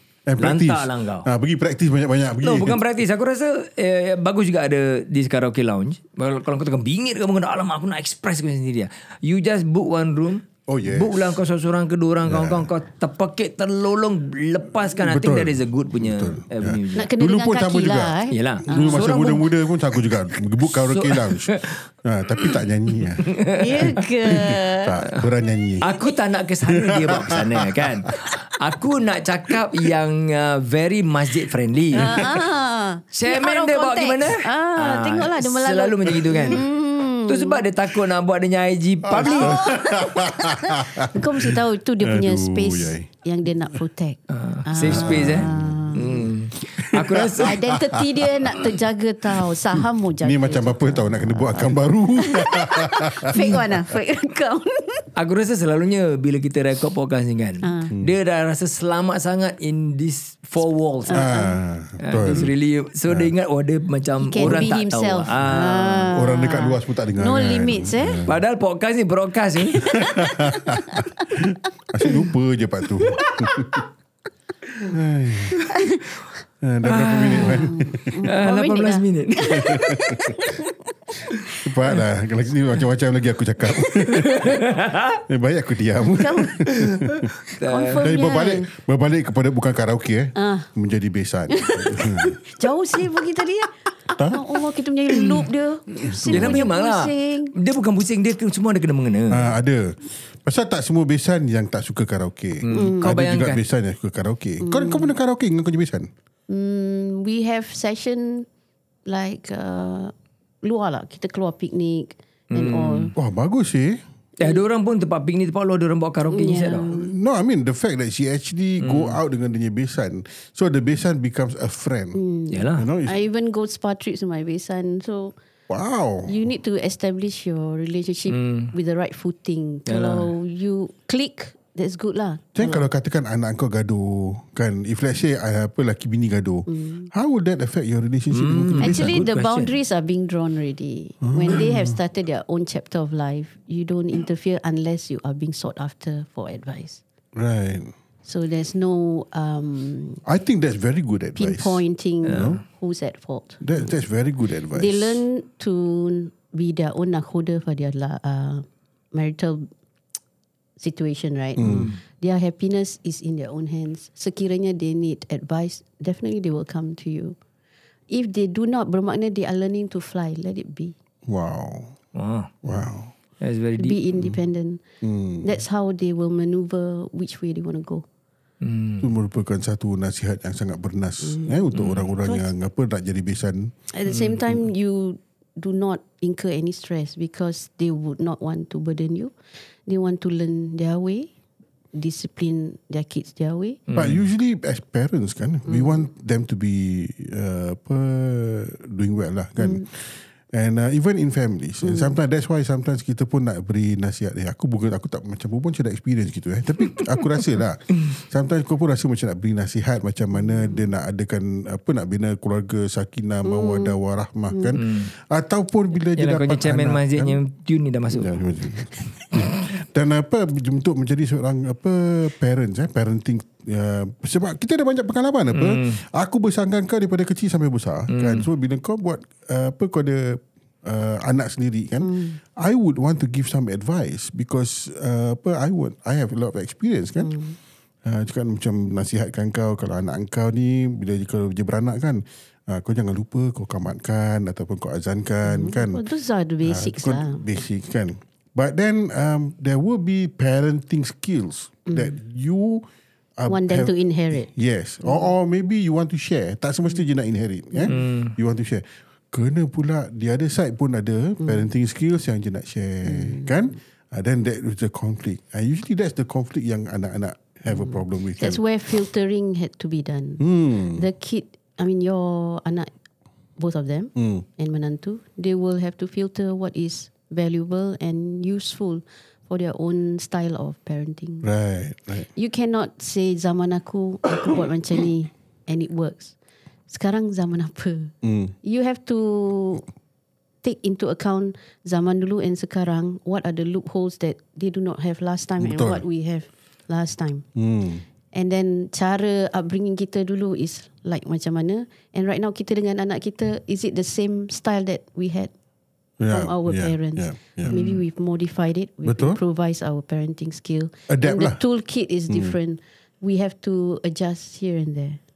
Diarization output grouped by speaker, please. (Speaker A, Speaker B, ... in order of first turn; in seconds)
Speaker A: 0.3-2.8, 10.7-11.4, 12.2-12.7, 15.0-23.3, 24.2-25.9, 26.7-28.3, 39.0-43.1, 44.8-46.1, 46.7-48.7, 50.2-53.6, 61.1-62.5, 66.1-68.4, 69.8-73.8, 74.8-75.7, 76.6-78.2, 79.5-80.4, 81.6-84.6, 85.3-87.3, 88.0-92.4, 94.2-94.4, 96.0-96.7, 99.3-106.1, 113.2-114.0, 116.9-122.2, 122.8-123.2, 125.7-126.3, 132.6-139.3, 141.2-142.0, 147.3-147.9, 150.3-152.6, 153.6-155.2, 161.6-161.9, 171.3-171.9, 172.6-173.1, 175.0-175.6, 179.0-183.7, 193.9-217.4, 218.1-237.3, 238.0-246.0, 246.6-252.9, 253.4-268.6, 270.4-271.0, 274.2-274.4, 281.4-282.3, 288.2-288.6, 295.6-296.0, 297.6-298.0, 306.2-307.8, 309.1-309.4, 311.1-311.6, 312.3-312.6
Speaker B: 0.4-1.3, 2.4-17.1, 18.3-19.5, 20.8-21.8, 23.0-24.0, 25.8-32.4, 33.1-36.7, 37.3-39.7, 44.3-47.6, 55.2-61.3, 62.0-66.1, 68.3-70.0, 76.8-77.7, 78.2-79.8, 83.8-85.2, 86.7-88.0, 96.3-99.5, 102.6-103.6, 112.5-113.1, 114.4-116.9, 118.8-119.2, 122.5-122.9, 128.3-128.7, 129.9-130.3, 138.3-139.8, 152.3-152.6, 161.6-161.9, 172.2-172.5, 173.4-174.0, 178.6-179.1, 181.7-182.0, 184.1-184.3, 193.9-194.2, 214.8-215.1, 216.2-218.4, 225.5-226.0, 228.1-228.5, 257.9-258.3, 307.6-308.0
Speaker C: 16.9-19.2, 23.5-25.0, 31.9-37.6, 39.2-46.2, 47.4-51.4, 52.1-55.1, 57.6-57.9, 61.1-61.5, 64.2-68.2, 70.2-71.5, 73.0-73.8, 75.7-76.0, 77.4-80.7, 86.2-86.7, 87.6-88.7, 90.4-90.7, 91.5-97.5, 102.7-103.1, 104.6-105.1, 106.5-108.5, 109.1-113.1, 116.3-117.1, 122.2-125.4, 126.3-132.8, 136.7-137.1, 138.8-147.0, 148.2-150.2, 151.4-153.6, 154.8-159.7, 160.8-167.4, 168.1-170.9, 173.8-174.8, 175.4-178.1, 181.2-181.6, 182.2-182.5, 183.9-189.3, 189.9-191.3, 191.9-193.8, 195.7-195.9, 199.6-199.8, 201.8-202.2, 213.4-214.0, 214.5-214.8, 232.0-232.4, 237.2-237.6, 245.4-247.4, 251.9-252.1, 253.5-254.5, 268.4-272.9, 273.6-281.5, 282.3-286.4, 286.9-288.1, 288.6-289.9, 290.6-297.4, 298.3-305.5, 306.3-315.2